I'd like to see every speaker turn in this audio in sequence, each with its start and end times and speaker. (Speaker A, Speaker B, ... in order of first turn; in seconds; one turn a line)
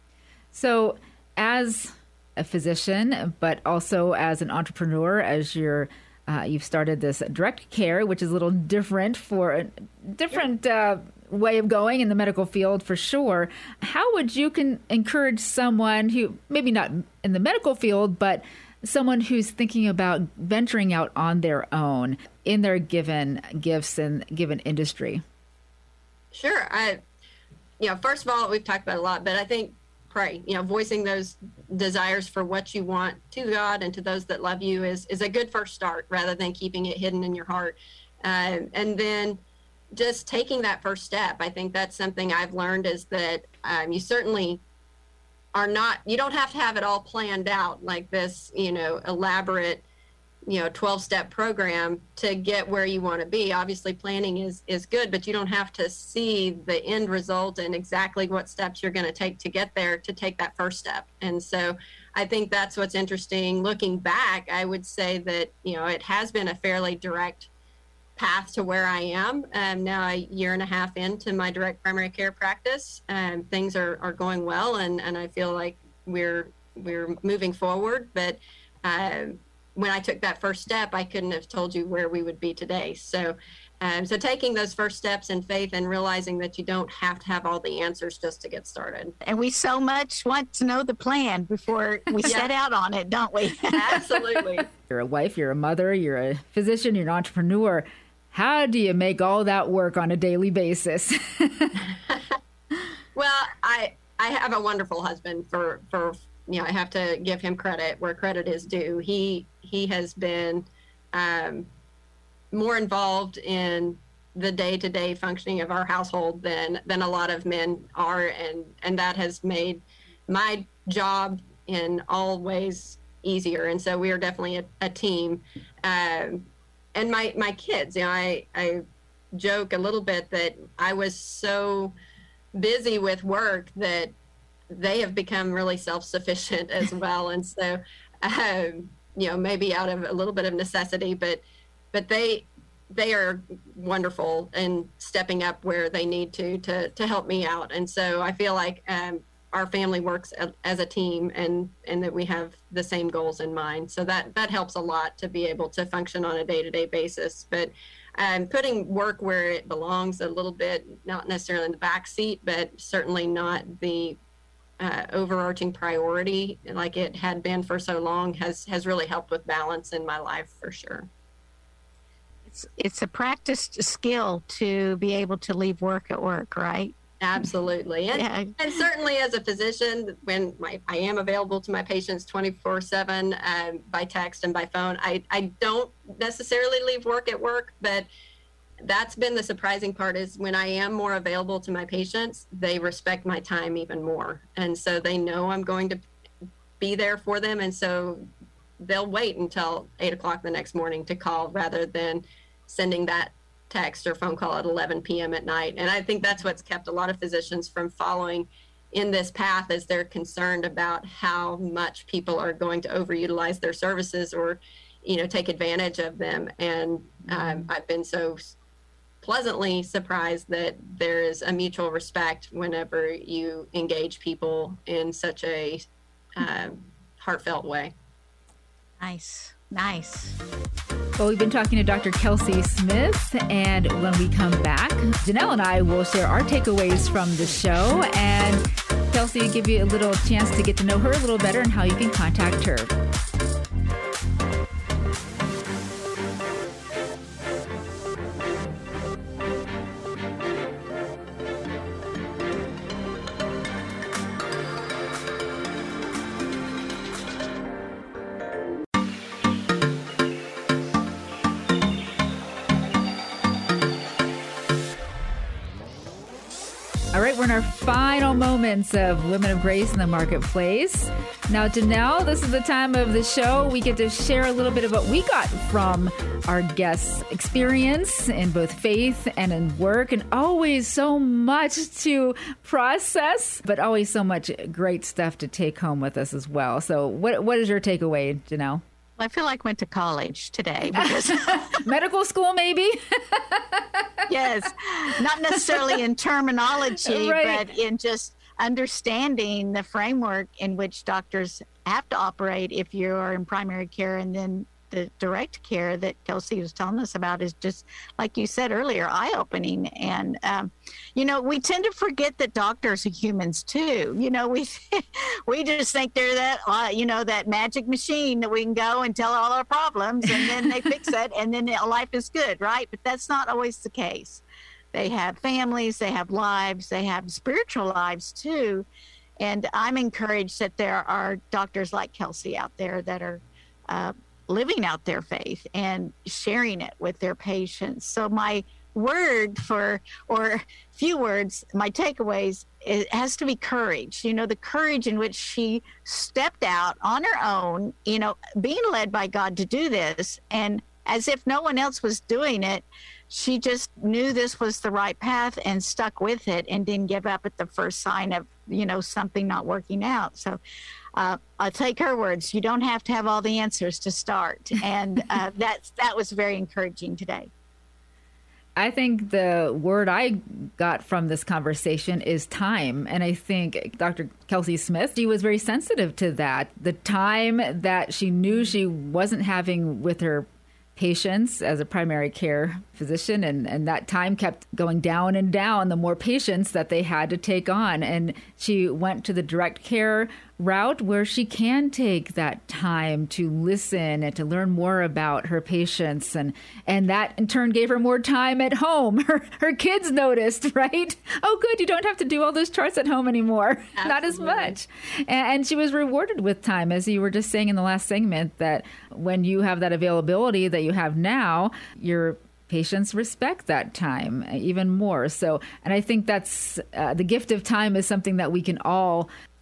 Speaker A: 0.5-25.2
Speaker B: 26.3-27.0
Speaker B: 27.8-39.4
Speaker B: 39.9-44.6
Speaker B: 45.5-49.9
Speaker B: 50.5-67.5
Speaker B: 68.2-89.2
Speaker C: 89.2-94.4
Speaker B: 92.2-92.5
Speaker B: 93.7-94.7
Speaker A: 94.9-101.8
Speaker B: 103.2-111.7
Speaker B: 112.5-131.9
Speaker B: 132.6-134.1
Speaker B: 134.7-164.2
Speaker B: 164.8-171.1
Speaker C: 172.5-177.0
Speaker B: 177.2-188.1
Speaker C: 178.1-178.6
Speaker B: 188.8-196.0
Speaker B: 196.8-198.3
Speaker B: 198.8-218.6
Speaker B: 219.2-227.9
Speaker C: 229.0-230.4
Speaker A: 231.2-242.9
Speaker A: 267.1-288.8
Speaker C: 289.2-291.9
Speaker A: 290.9-294.1
Speaker C: 294.3-328.9
Speaker A: 295.6-296.0
Speaker A: 297.0-297.6
Speaker C: 329.4-360.6
Speaker C: 361.1-367.5
Speaker A: 368.8-419.3
Speaker B: 404.0-404.8